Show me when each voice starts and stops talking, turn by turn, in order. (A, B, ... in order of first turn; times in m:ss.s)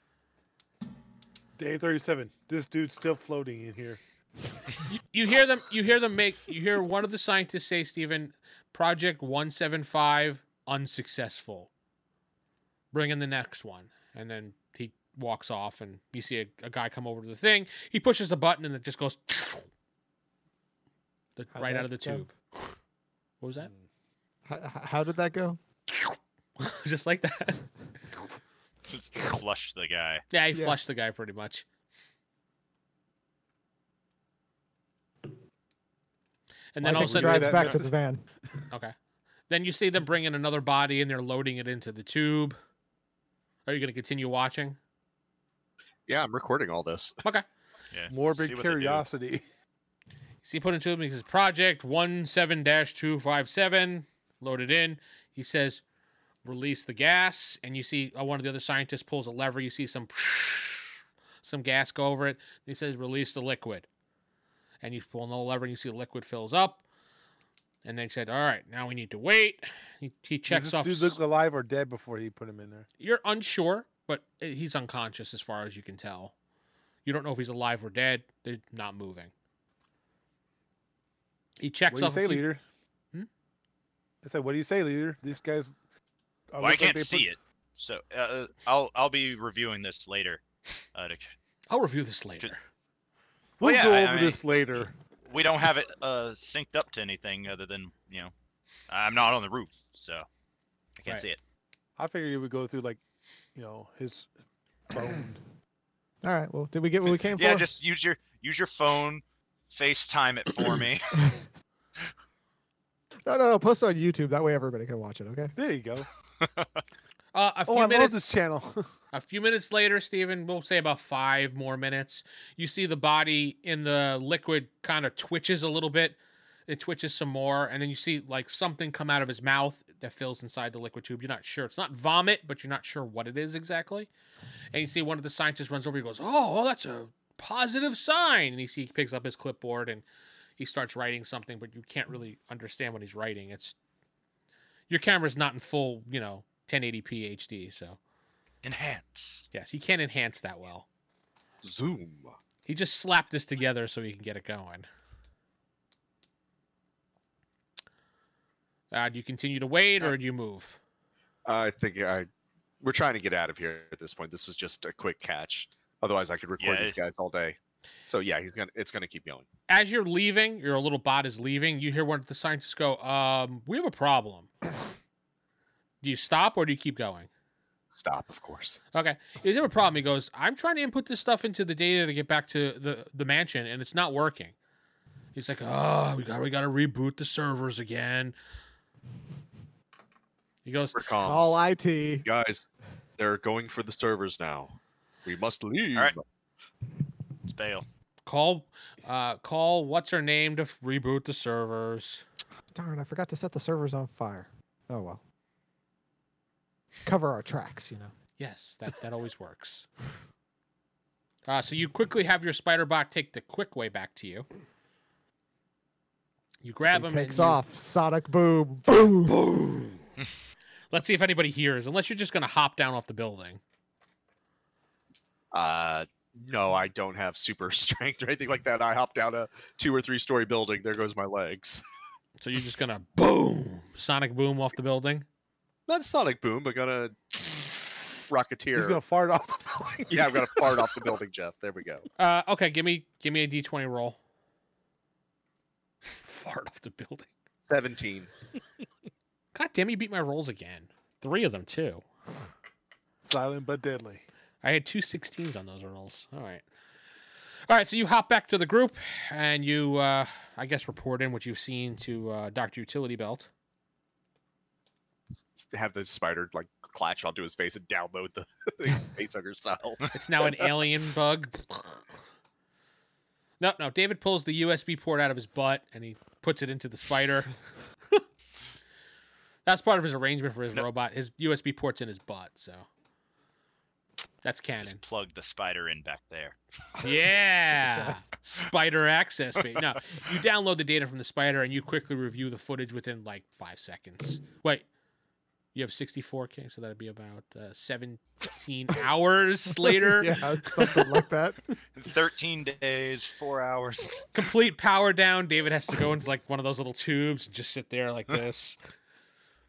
0:01.6-0:04.0 A
0:04.9-0:11.7 B
0:12.9-0:19.7 B
0:21.4-0:22.8 B
0:21.5-0:22.2 C
0:23.4-0:23.7 B
0:24.5-0:25.6 C
0:25.9-0:27.7 B
0:28.9-0:30.2 D
0:30.3-0:31.6 B
0:30.5-0:30.8 C
0:36.7-0:37.7 B
0:36.8-0:38.3 C
0:36.9-0:37.9 A
0:38.7-0:38.9 B
0:39.5-0:42.6 B
0:43.6-0:44.8 B
0:46.1-0:47.2 E
0:47.9-0:49.0 D
0:48.1-0:49.4 A
0:50.4-0:55.8 B
0:56.4-1:03.9 B
1:04.8-1:06.8 B
1:07.8-1:11.2 B
1:10.5-1:12.8 A
1:13.0-1:16.3 B
1:17.0-1:19.3 B
1:21.6-1:22.4 B
1:21.9-1:22.6 A
1:24.2-1:25.7 A
1:26.5-1:27.3 A
1:26.6-1:30.4 D
1:30.9-1:31.3 D
1:31.7-1:32.6 B
1:33.6-1:34.9 A
1:33.6-1:38.3 D
1:38.9-1:40.3 D
1:41.0-1:41.4 D
1:42.0-1:43.0 A
1:43.5-1:44.3 A
1:44.9-1:45.4 A
1:46.2-1:47.7 C
1:47.2-1:51.4 D
1:53.2-1:55.5 C
1:55.6-1:56.1 A
1:56.4-1:56.7 D
1:57.3-1:58.2 B
1:57.7-1:58.9 A
1:59.1-2:14.1 B
2:14.7-2:20.0 B
2:20.6-2:23.8 B
2:24.9-2:28.0 B
2:28.6-2:29.4 D
2:29.5-2:30.9 B
2:31.6-2:32.3 E
2:32.6-2:34.9 B
2:38.9-2:40.8 B
2:41.4-2:42.3 E
2:42.8-2:49.4 E
2:46.6-2:47.0 D
2:49.7-2:54.5 B
2:56.0-2:57.3 B
2:57.9-2:58.8 E
2:58.9-3:04.5 B
3:05.3-3:08.3 B
3:10.6-3:11.0 B
3:10.9-3:11.6 E
3:11.2-3:12.2 C
3:12.2-3:12.7 E
3:13.2-3:16.2 E
3:17.4-3:17.8 D
3:18.2-3:22.2 B
3:22.7-3:25.2 C
3:27.0-3:28.1 C
3:28.4-3:29.9 B
3:31.5-3:34.4 B
3:36.6-3:37.6 B
3:36.9-3:39.4 C
3:39.3-3:40.0 B
3:40.9-3:43.6 B
3:45.5-3:51.8 E
3:52.4-3:55.2 B
3:55.9-3:59.0 E
3:58.7-4:01.1 A
4:00.1-4:02.0 E
4:02.2-4:04.2 B
4:06.1-4:07.3 B
4:07.6-4:08.3 E
4:09.5-4:12.1 B
4:13.2-4:14.2 A
4:14.6-4:16.6 B
4:17.7-4:23.5 B
4:25.7-4:30.1 E
4:30.1-4:32.0 B
4:33.6-4:37.5 B
4:39.6-4:42.9 B
4:44.4-4:45.0 B
4:44.8-4:46.6 D
4:47.0-4:54.8 B
4:55.7-5:01.0 B
5:00.0-5:01.6 C
5:02.0-5:04.2 D
5:04.3-5:08.8 B